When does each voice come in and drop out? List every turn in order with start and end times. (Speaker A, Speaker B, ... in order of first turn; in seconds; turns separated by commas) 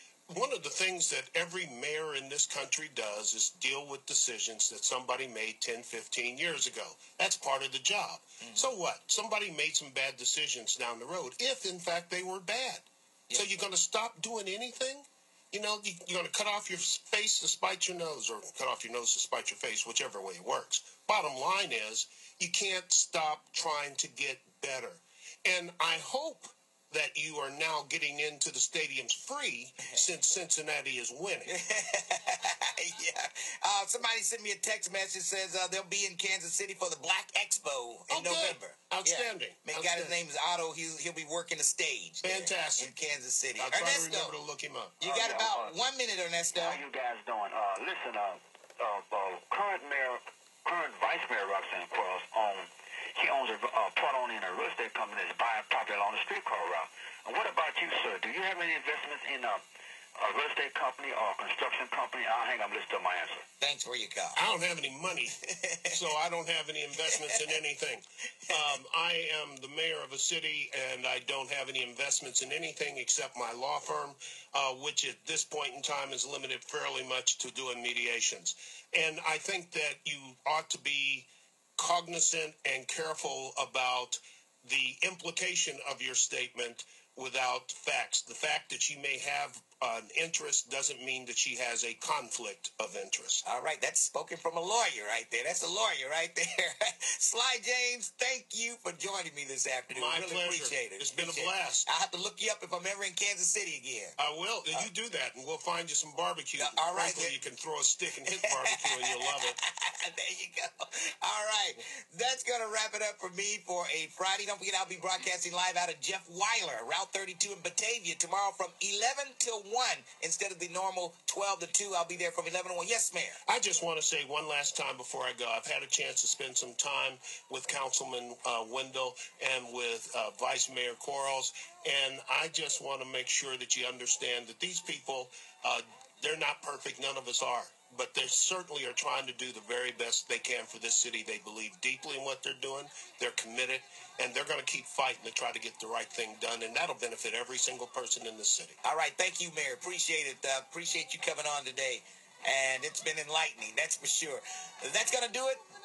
Speaker A: 0.3-31.5, Speaker B: 8.4-8.7, Speaker B: 31.4-44.3, Speaker A: 38.1-40.2, Speaker A: 42.2-42.9, Speaker A: 43.6-45.0, Speaker B: 45.0-46.8, Speaker C: 45.0-45.8, Speaker C: 46.5-59.6, Speaker C: 60.2-63.5, Speaker B: 63.6-64.4, Speaker A: 64.3-65.3, Speaker B: 65.5-66.0, Speaker A: 65.9-93.4, Speaker B: 67.1-67.4, Speaker B: 93.4-104.2, Speaker A: 99.9-101.9, Speaker A: 104.2-109.6, Speaker B: 106.6-107.3, Speaker B: 108.2-123.4, Speaker A: 123.4-148.8, Speaker B: 148.8-155.6